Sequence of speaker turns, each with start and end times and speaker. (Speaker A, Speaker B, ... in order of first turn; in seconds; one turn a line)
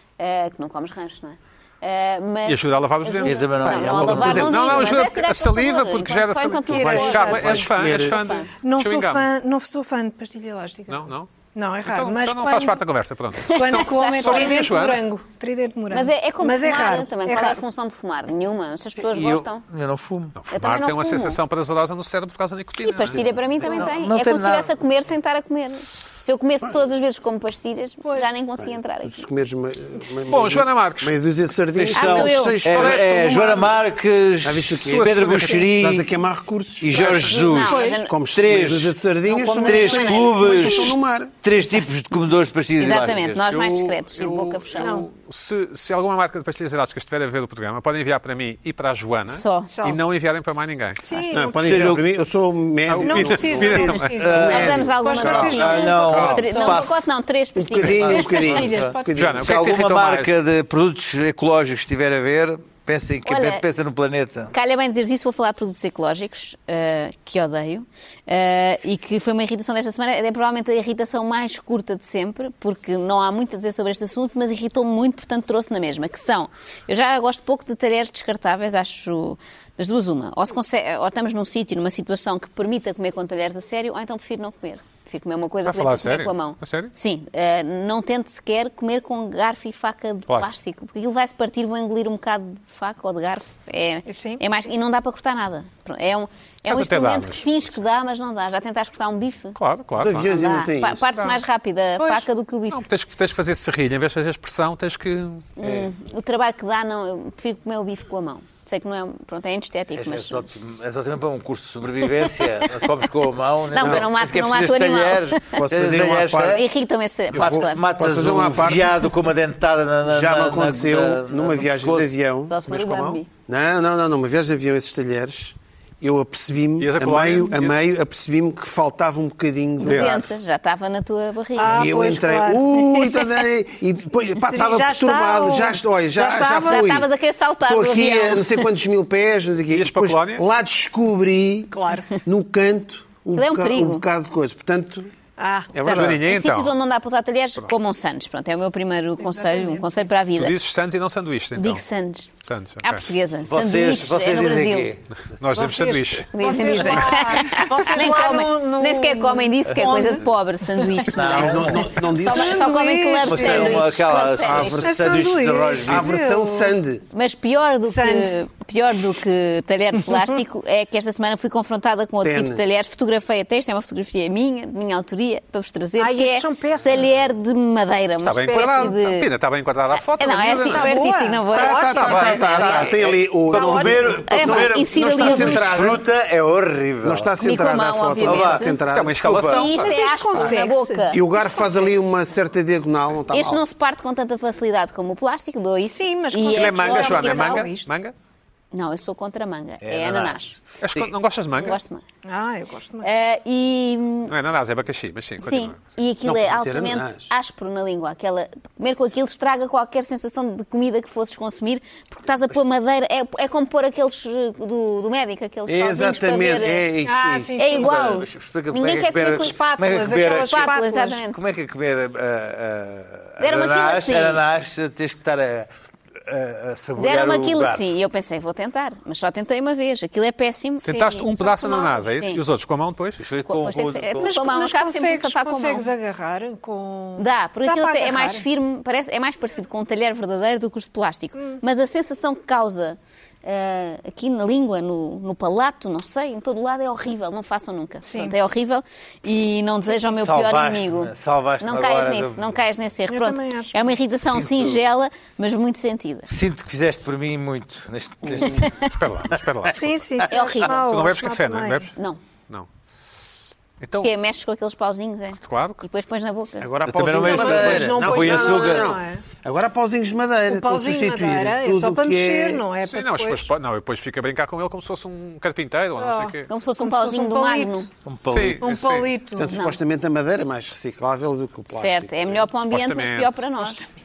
Speaker A: 0.2-8.5
Speaker B: 2.5-3.5
Speaker C: 3.2-4.7
Speaker D: 3.6-4.8
Speaker B: 4.1-9.3
Speaker D: 6.7-8.2
Speaker E: 6.9-7.7
Speaker E: 8.6-12.8
Speaker B: 10.9-11.3
Speaker B: 11.8-15.0
Speaker A: 13.4-14.8
Speaker E: 13.5-17.6
Speaker A: 15.9-19.6
Speaker C: 19.0-20.4
Speaker B: 20.4-23.3
Speaker A: 20.5-21.4
Speaker A: 22.8-29.2
Speaker C: 23.6-24.7
Speaker D: 28.6-33.7
Speaker B: 30.3-31.1
Speaker C: 31.8-36.1
Speaker A: 31.9-32.8
Speaker B: 32.7-33.6
Speaker D: 34.4-37.4
Speaker B: 34.8-35.7
Speaker C: 36.8-39.0
Speaker B: 37.0-37.4
Speaker A: 37.0-38.2
Speaker E: 37.6-38.0
Speaker D: 38.0-41.3
Speaker A: 39.3-40.9
Speaker C: 39.5-43.4
Speaker A: 42.8-45.0
Speaker B: 43.5-51.0
Speaker E: 44.8-45.1
Speaker A: 49.3-49.7
Speaker E: 49.7-50.0
Speaker E: 51.0-52.0
Speaker D: 51.3-56.5
Speaker C: 51.6-52.0
Speaker B: 52.9-54.1
Speaker E: 53.0-57.0
Speaker C: 54.1-57.1
Speaker A: 54.5-58.6
Speaker D: 57.5-59.7
Speaker C: 57.8-64.5
Speaker E: 58.2-59.1
Speaker B: 59.1-60.3
Speaker A: 63.3-63.6
Speaker A: 64.5-99.6
Speaker B: 85.7-86.9
Speaker E: 94.1-94.4
Speaker B: 96.7-97.5
Speaker B: 99.5-100.4
Speaker D: 100.0-101.1
Speaker A: 100.3-102.9
Speaker B: 102.7-105.5
Speaker A: 105.6-110.5
Speaker C: 105.6-105.9
Speaker C: 110.0-116.6
Speaker A: 113.7-115.6
Speaker D: 113.8-114.1
Speaker D: 115.5-116.6
Speaker A: 116.5-117.8
Speaker D: 117.3-119.1
Speaker C: 117.3-122.1
Speaker D: 120.0-130.3
Speaker A: 122.5-123.3
Speaker B: 126.8-127.8
Speaker A: 129.8-132.0
Speaker B: 129.8-130.2
Speaker E: 131.6-132.9
Speaker D: 131.7-137.1
Speaker E: 134.4-136.9
Speaker A: 136.7-138.5
Speaker D: 137.7-145.1
Speaker B: 139.7-140.4
Speaker E: 141.7-142.1
Speaker A: 143.3-144.0
Speaker E: 145.4-145.7
Speaker D: 145.7-146.2
Speaker B: 145.9-146.7
Speaker A: 145.9-150.6
Speaker E: 149.2-150.1
Speaker B: 150.3-151.8
Speaker A: 151.6-154.9
Speaker B: 152.4-153.1
Speaker C: 153.5-155.1
Speaker B: 155.2-157.2
Speaker E: 155.5-161.2
Speaker A: 156.3-165.0
Speaker C: 159.7-160.3
Speaker C: 161.0-162.0
Speaker D: 161.2-162.8
Speaker E: 161.9-163.8
Speaker C: 163.2-166.1
Speaker D: 163.3-167.0
Speaker E: 164.8-166.8
Speaker A: 167.1-179.3
Speaker E: 167.9-168.4
Speaker D: 172.2-172.6
Speaker E: 176.0-177.0
Speaker B: 178.2-181.0
Speaker A: 179.9-182.9
Speaker E: 180.7-182.4
Speaker D: 181.5-186.1
Speaker B: 181.8-182.6
Speaker C: 182.6-187.3
Speaker A: 183.5-185.9
Speaker D: 187.0-189.5
Speaker A: 187.4-188.8
Speaker C: 188.1-189.7
Speaker B: 188.9-190.0
Speaker A: 189.5-191.2
Speaker E: 189.6-192.1
Speaker D: 191.1-193.6
Speaker A: 193.3-197.7
Speaker E: 195.8-197.9
Speaker B: 196.5-198.1
Speaker A: 198.7-200.6
Speaker C: 199.8-201.1
Speaker B: 200.8-201.8
Speaker A: 201.6-202.0
Speaker E: 202.2-203.1
Speaker A: 203.0-204.3
Speaker B: 204.3-205.8
Speaker A: 205.4-216.9
Speaker D: 206.3-207.3
Speaker D: 215.7-217.9
Speaker E: 217.0-218.1
Speaker A: 217.6-221.4
Speaker C: 217.6-225.7
Speaker E: 219.4-221.2
Speaker A: 223.4-224.4
Speaker C: 226.2-227.9
Speaker A: 227.0-232.4
Speaker B: 230.8-233.2
Speaker E: 230.9-231.9
Speaker C: 233.2-234.3
Speaker A: 233.4-235.9
Speaker E: 234.2-238.4
Speaker A: 237.2-256.3
Speaker E: 248.1-248.4
Speaker C: 249.9-252.6
Speaker E: 253.1-254.0
Speaker C: 254.2-254.8
Speaker C: 256.3-259.7
Speaker A: 258.4-258.9
Speaker B: 258.9-259.9
Speaker E: 259.7-261.9
Speaker A: 260.3-260.7
Speaker B: 260.8-261.9
Speaker B: 263.8-264.1
Speaker A: 264.0-266.8
Speaker B: 265.4-265.8
Speaker D: 266.6-272.7
Speaker C: 266.8-268.9
Speaker E: 267.2-269.2
Speaker E: 270.5-273.5
Speaker B: 272.9-276.5
Speaker E: 276.0-277.9
Speaker A: 276.5-277.9
Speaker C: 278.1-278.7
Speaker B: 278.3-279.1
Speaker E: 278.6-279.5
Speaker D: 279.4-282.4
Speaker A: 279.5-279.8
Speaker A: 281.7-283.9
Speaker B: 282.6-283.4